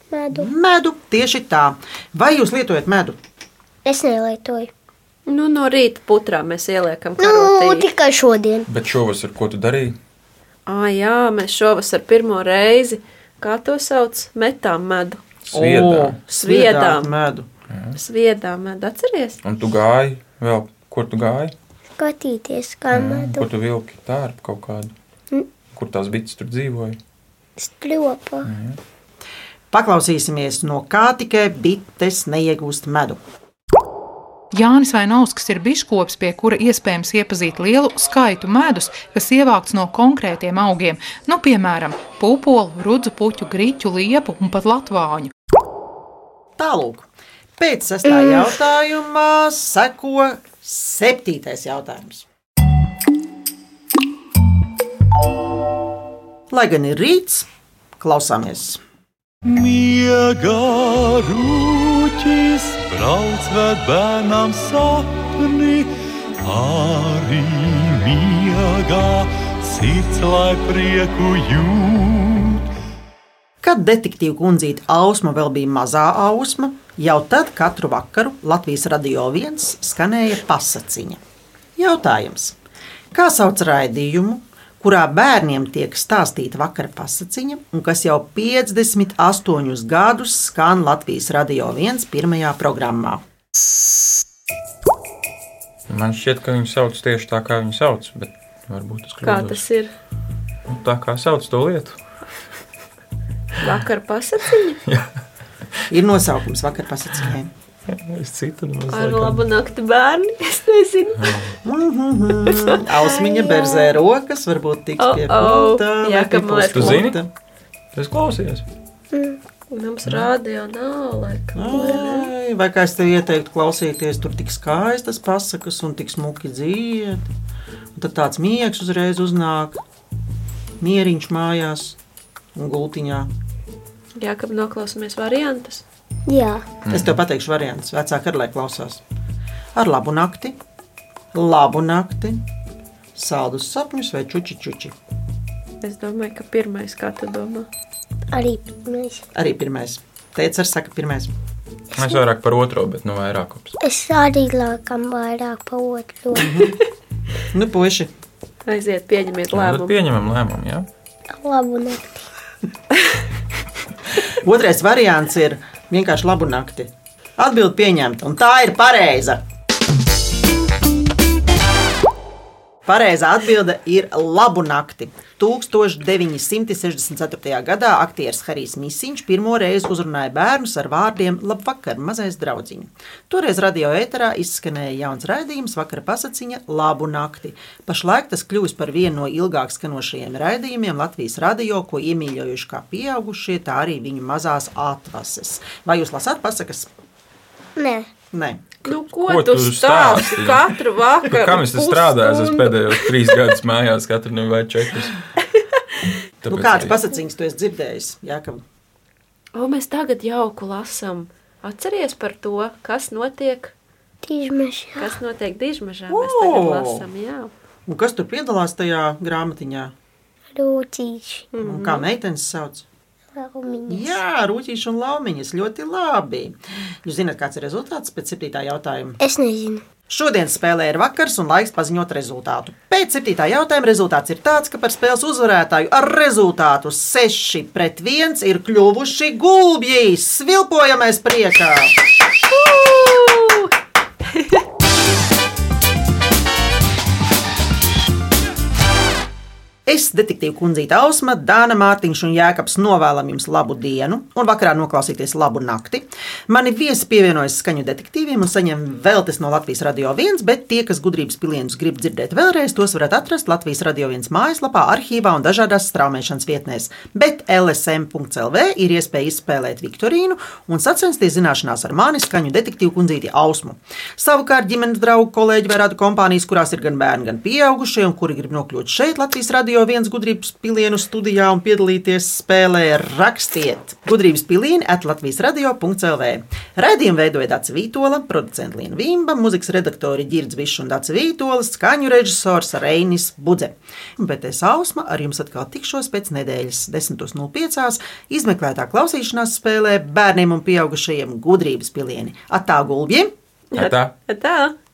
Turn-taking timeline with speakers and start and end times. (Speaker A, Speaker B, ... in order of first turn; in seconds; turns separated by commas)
Speaker A: 0.1-0.5, Speaker B: 0.3-3.2, Speaker A: 3.9-4.7, Speaker C: 5.3-7.9, Speaker A: 7.2-8.7, Speaker D: 8.7-10.0, Speaker C: 10.7-15.2, Speaker D: 15.4-16.2, Speaker B: 15.5-17.5, Speaker C: 16.3-17.1, Speaker D: 17.7-18.0, Speaker C: 17.9-19.4, Speaker D: 19.4-21.5, Speaker A: 22.0-23.5, Speaker D: 22.9-24.9, Speaker D: 25.7-27.0, Speaker A: 27.6-28.5, Speaker D: 28.4-28.8, Speaker B: 29.7-33.2, Speaker E: 34.5-45.3, Speaker B: 46.6-47.1, Speaker B: 47.6-52.3, Speaker A: 48.1-48.5, Speaker B: 56.5-57.5, Speaker B: 58.0-58.8, Speaker F: 59.4-72.7, Speaker B: 73.6-81.2, Speaker B: 81.8-82.6, Speaker B: 83.1-93.2, Speaker D: 95.9-99.6, Speaker C: 99.2-99.9, Speaker D: 100.7-102.0, Speaker C: 103.6-104.8, Speaker B: 105.9-107.5, Speaker D: 107.9-109.4, Speaker C: 108.9-111.4, Speaker D: 111.2-111.6, Speaker B: 111.6-117.3, Speaker C: 112.5-112.8, Speaker A: 113.2-113.9, Speaker C: 115.0-117.1, Speaker D: 116.7-117.2, Speaker D: 118.0-118.7, Speaker A: 119.1-119.4, Speaker C: 119.7-122.3, Speaker B: 121.5-127.3, Speaker B: 128.0-129.8, Speaker B: 130.8-132.0, Speaker B: 132.6-133.3, Speaker C: 134.2-135.8, Speaker A: 136.3-136.7, Speaker D: 136.8-137.2, Speaker B: 136.9-139.0, Speaker B: 139.8-140.6, Speaker B: 141.3-142.4, Speaker B: 143.2-144.9, Speaker C: 145.8-147.7, Speaker A: 148.3-149.2, Speaker B: 149.3-151.4, Speaker A: 151.9-152.2, Speaker D: 151.9-153.8, Speaker A: 153.8-156.5, Speaker B: 156.4-156.8, Speaker B: 157.5-158.1, Speaker C: 158.7-159.9, Speaker D: 159.5-160.9, Speaker A: 161.3-162.3, Speaker B: 164.3-169.4, Speaker B: 172.9-196.9, Speaker A: 197.8-198.1, Speaker B: 198.3-198.7, Speaker C: 198.8-203.1, Speaker D: 199.1-205.2, Speaker D: 206.4-207.0, Speaker B: 206.5-208.6, Speaker C: 209.6-213.8, Speaker A: 214.2-215.2, Speaker C: 215.0-217.5, Speaker B: 216.1-217.1, Speaker B: 217.9-219.9, Speaker A: 220.5-221.5, Speaker C: 221.5-222.1, Speaker B: 221.6-222.8, Speaker A: 223.3-224.2, Speaker B: 223.9-229.2, Speaker A: 229.2-229.9, Speaker B: 230.1-241.9, Speaker C: 242.5-243.7, Speaker C: 244.3-244.6, Speaker B: 249.9-303.3, Speaker C: 303.7-304.7, Speaker D: 303.8-304.1